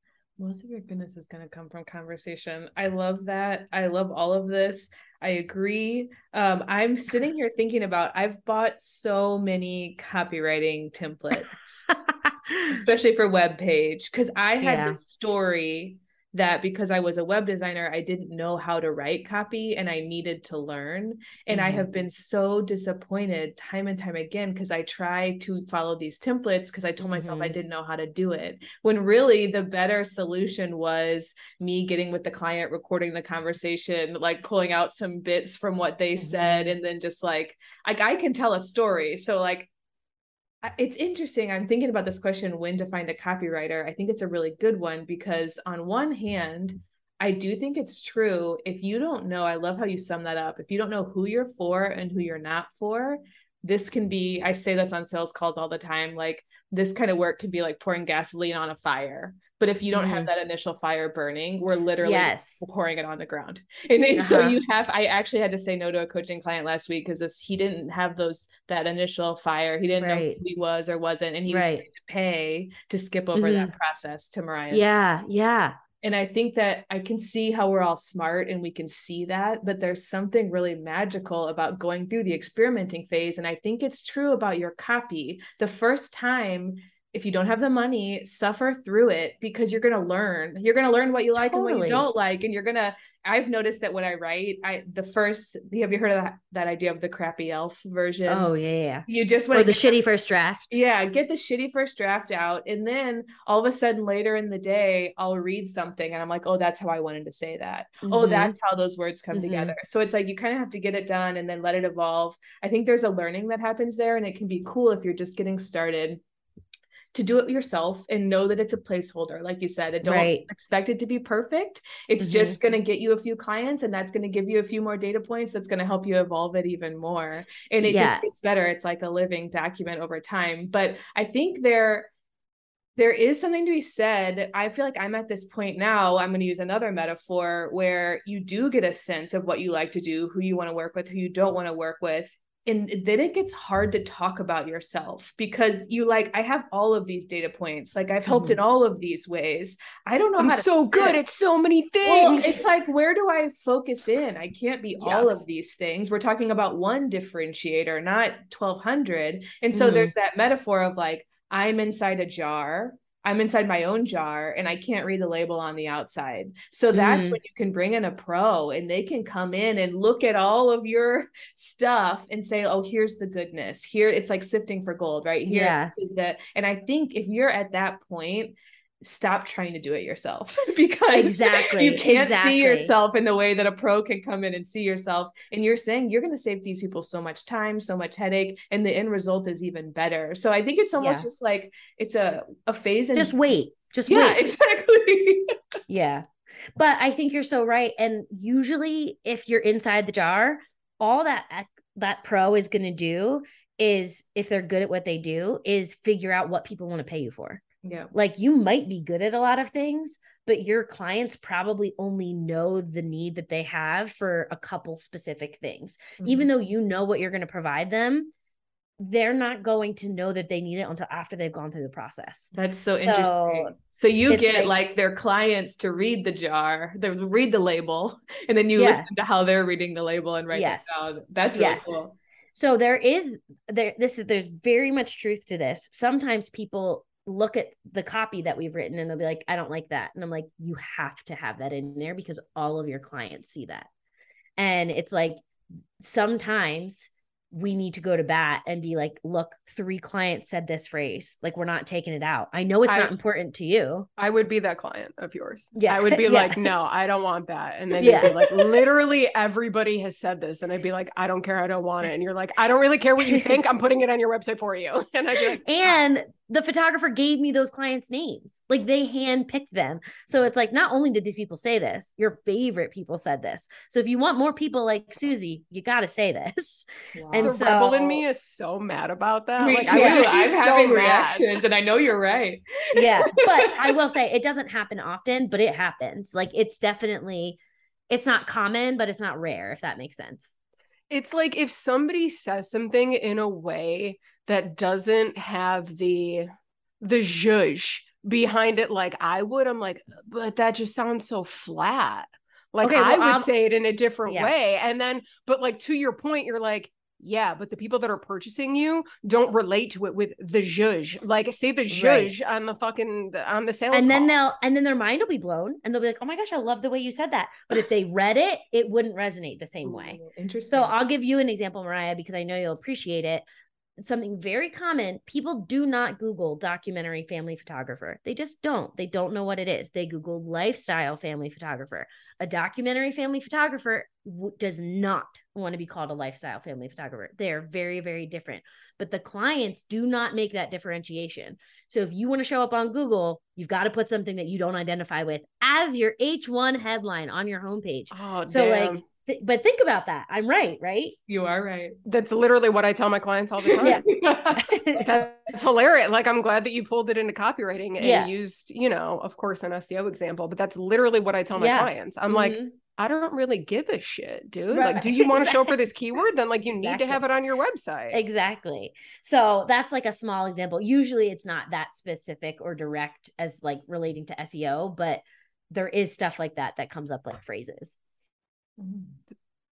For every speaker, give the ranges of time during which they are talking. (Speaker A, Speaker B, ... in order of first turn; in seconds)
Speaker A: 0.4-11.8, 12.7-39.7, 40.6-74.8, 76.0-98.5, 99.1-100.0, 100.7-116.2, 117.1-132.1, 133.0-151.2, 152.0-195.5, 207.8-208.1, 216.2-216.5, 222.5-232.1, 277.1-277.6, 279.6-283.9, 319.8-320.9, 351.3-352.0, 353.6-354.8, 378.8-379.2
Speaker B: 11.9-12.8, 14.6-15.0, 21.5-21.9, 27.1-27.6, 36.2-36.8, 59.9-60.3, 62.0-62.6, 64.2-64.6, 70.0-70.4, 71.5-71.8, 73.3-73.7, 74.7-75.8, 91.3-92.0, 98.3-100.7, 108.0-108.5, 109.3-109.7, 120.0-120.5, 122.2-122.6, 127.8-128.2, 148.3-148.6, 155.0-155.4, 159.7-160.1, 166.9-167.4, 175.5-175.9, 181.1-182.9, 191.0-191.3, 193.1-194.4, 195.9-218.3, 219.0-223.8, 224.3-224.7, 228.8-229.1, 230.5-243.9, 244.6-245.4, 246.0-254.1, 255.7-256.7, 258.0-258.6, 263.2-263.6, 265.6-278.2, 279.7-280.4, 282.9-290.5, 302.8-303.5, 304.2-304.5, 311.9-312.3, 313.9-320.2, 320.7-323.4, 324.0-351.1, 353.8-355.1, 358.0-358.3, 361.6-362.8, 364.7-365.8, 366.8-367.2, 368.1-377.9
Speaker C: 150.4-152.6, 252.9-253.1, 254.2-265.9, 277.4-281.5, 291.1-296.5, 297.0-314.3, 348.1-349.0, 352.1-354.1, 355.0-368.2